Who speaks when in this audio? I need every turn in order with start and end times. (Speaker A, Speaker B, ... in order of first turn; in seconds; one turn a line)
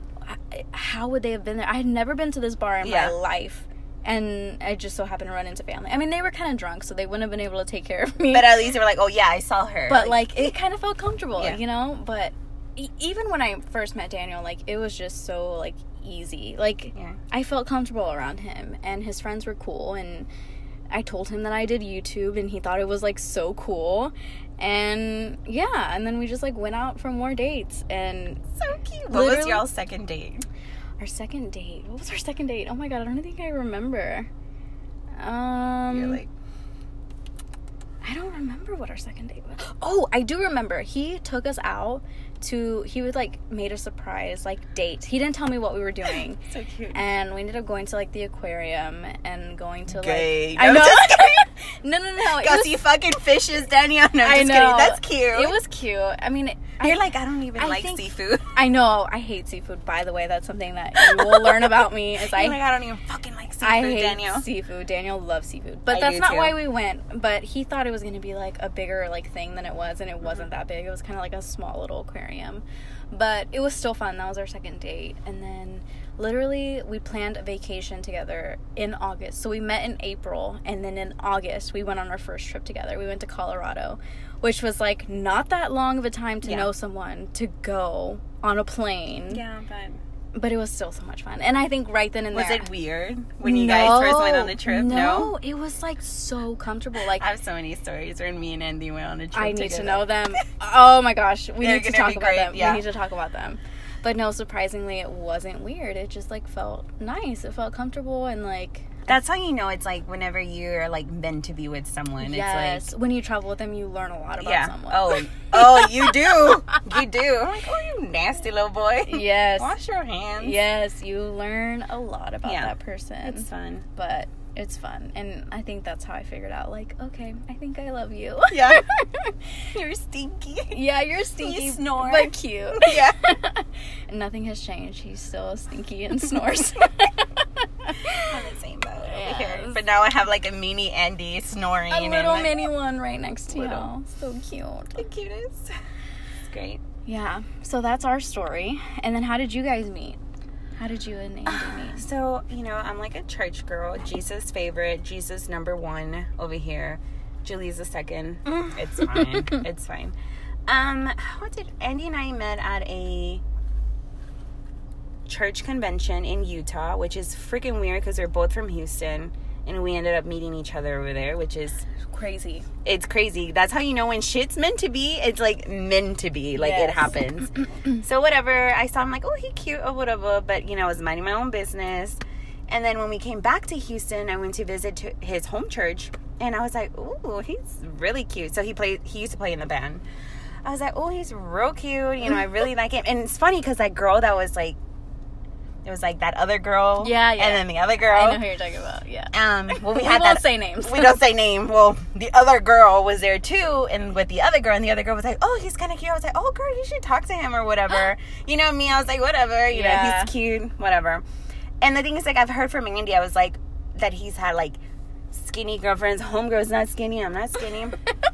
Speaker A: 0.2-8.7
Speaker B: 2.8-3.1
Speaker B: 8.3-10.5
Speaker A: 9.9-20.3
Speaker A: 20.9-28.5
Speaker B: 28.6-30.5
Speaker A: 29.1-29.7
Speaker A: 31.0-34.3
Speaker A: 35.2-36.2
Speaker B: 35.9-36.3
Speaker A: 38.0-46.4
Speaker B: 46.5-47.0
Speaker A: 46.9-52.8
Speaker B: 49.9-51.5
Speaker B: 52.2-55.6
Speaker A: 54.2-57.0
Speaker B: 56.8-58.6
Speaker A: 57.5-62.6
Speaker B: 61.0-64.5
Speaker A: 63.6-89.4
Speaker B: 65.9-66.6
Speaker B: 86.4-86.7
Speaker B: 89.3-90.0
Speaker A: 90.3-92.7
Speaker B: 92.3-95.4
Speaker A: 93.4-97.2
Speaker B: 97.2-100.2
Speaker A: 99.3-109.1
Speaker B: 101.6-102.8
Speaker B: 109.1-112.9
Speaker A: 112.2-116.5
Speaker B: 114.4-120.6
Speaker A: 119.1-119.7
Speaker A: 120.4-129.3
Speaker B: 122.4-122.7
Speaker B: 123.2-123.9
Speaker B: 128.5-128.8
Speaker B: 129.7-130.8
Speaker A: 130.7-138.3
Speaker B: 131.4-133.2
Speaker B: 138.2-142.7
Speaker A: 139.0-139.8
Speaker A: 141.9-145.1
Speaker B: 143.5-143.9
Speaker B: 145.0-145.7
Speaker B: 146.4-146.8
Speaker A: 147.1-150.2
Speaker A: 150.8-152.1
Speaker B: 151.5-160.2
Speaker B: 160.7-163.4
Speaker B: 165.3-171.9
Speaker A: 172.1-172.7
Speaker B: 172.8-190.0
Speaker A: 176.6-177.1
Speaker B: 190.6-194.8
Speaker B: 195.8-198.4
Speaker A: 197.0-201.2
Speaker B: 199.3-211.2
Speaker A: 209.7-210.3
Speaker B: 211.8-214.8
Speaker B: 215.3-218.0